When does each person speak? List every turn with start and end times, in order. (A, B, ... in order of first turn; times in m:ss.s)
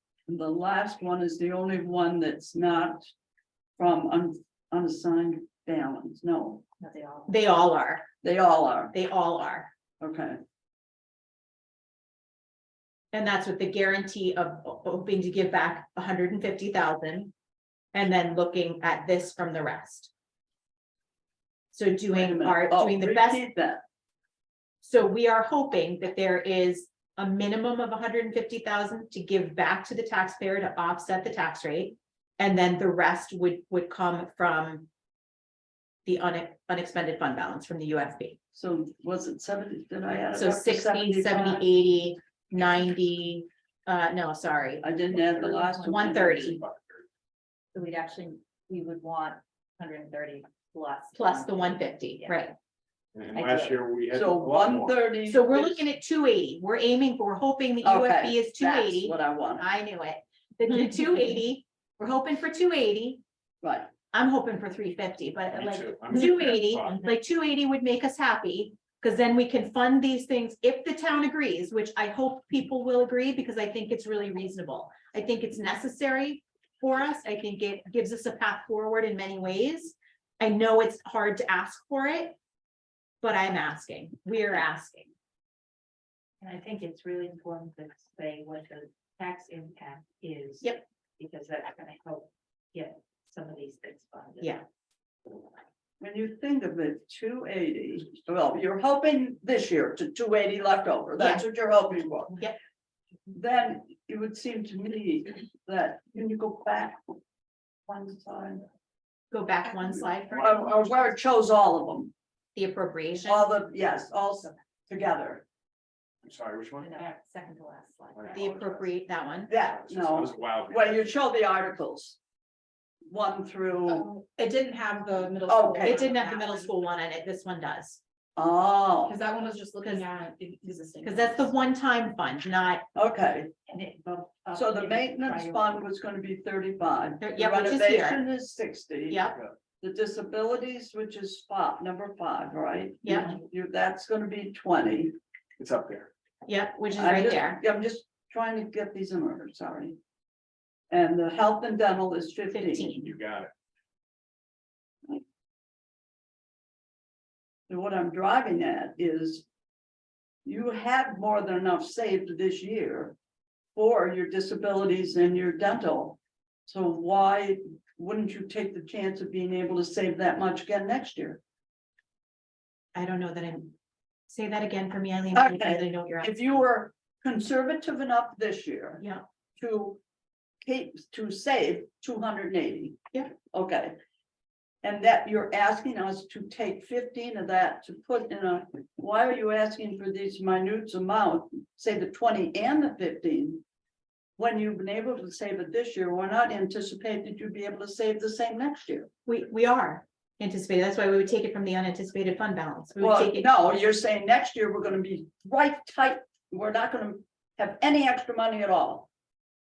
0:00.3-0:03.0 A
0:03.8-0:06.6 A
0:06.8-0:07.4 B
0:07.3-0:08.0 C
0:08.2-0:08.9 A
0:08.9-0:09.7 C
0:10.0-0:10.4 A
0:13.1-0:17.3 C
0:17.9-0:20.1 C
0:21.7-0:23.4 C
0:22.1-0:23.8 A
0:24.8-0:34.9 C
0:36.0-0:38.4 C
0:38.5-0:41.6 A
0:40.3-0:44.8 C
0:44.8-0:46.6 A
0:45.6-0:46.6 C
0:46.6-0:47.0 D
0:47.7-0:52.4 B
0:51.1-0:52.5 C
0:53.1-0:55.0 D
0:53.3-0:53.8 B
0:54.1-0:55.9 A
0:55.2-1:03.2 C
0:57.8-0:59.7 A
1:03.6-1:03.9 A
1:04.1-1:22.4 C
1:05.5-1:07.0 D
1:23.2-1:25.1 C
1:26.4-1:34.6 B
1:36.0-1:42.4 A
1:41.2-1:41.4 C
1:43.3-1:47.2 A
1:47.9-1:48.6 A
1:49.3-1:50.7 C
1:49.9-1:52.1 A
1:52.5-1:53.5 C
1:53.2-1:55.4 A
1:56.2-1:56.9 D
1:56.8-1:58.5 B
1:58.1-1:58.9 D
1:58.3-1:59.5 C
1:59.5-2:01.1 D
1:59.5-2:02.2 A
2:03.1-2:04.1 A
2:03.8-2:06.7 E
2:05.5-2:06.0 A
2:05.8-2:08.0 C
2:08.4-2:09.2 A
2:09.0-2:11.5 E
2:11.0-2:12.8 C
2:12.9-2:13.5 A
2:13.7-2:15.8 B
2:14.5-2:19.2 A
2:17.2-2:18.2 C
2:19.1-2:19.3 C
2:19.8-2:25.1 A
2:23.0-2:23.4 C
2:25.6-2:26.1 D
2:26.4-2:27.6 C
2:26.9-2:30.0 A
2:30.9-2:32.9 A
2:32.5-2:33.1 C
2:33.0-2:33.5 D
2:37.7-2:39.4 A
2:40.4-2:43.2 A
2:43.7-2:51.4 A
2:52.9-2:53.7 C
2:54.3-2:56.6 C
2:55.3-2:59.0 A
2:59.6-3:00.0 A
3:00.6-3:04.0 A
3:04.8-3:13.6 A
3:14.4-3:19.1 A
3:19.2-3:23.5 C
3:23.0-3:29.1 A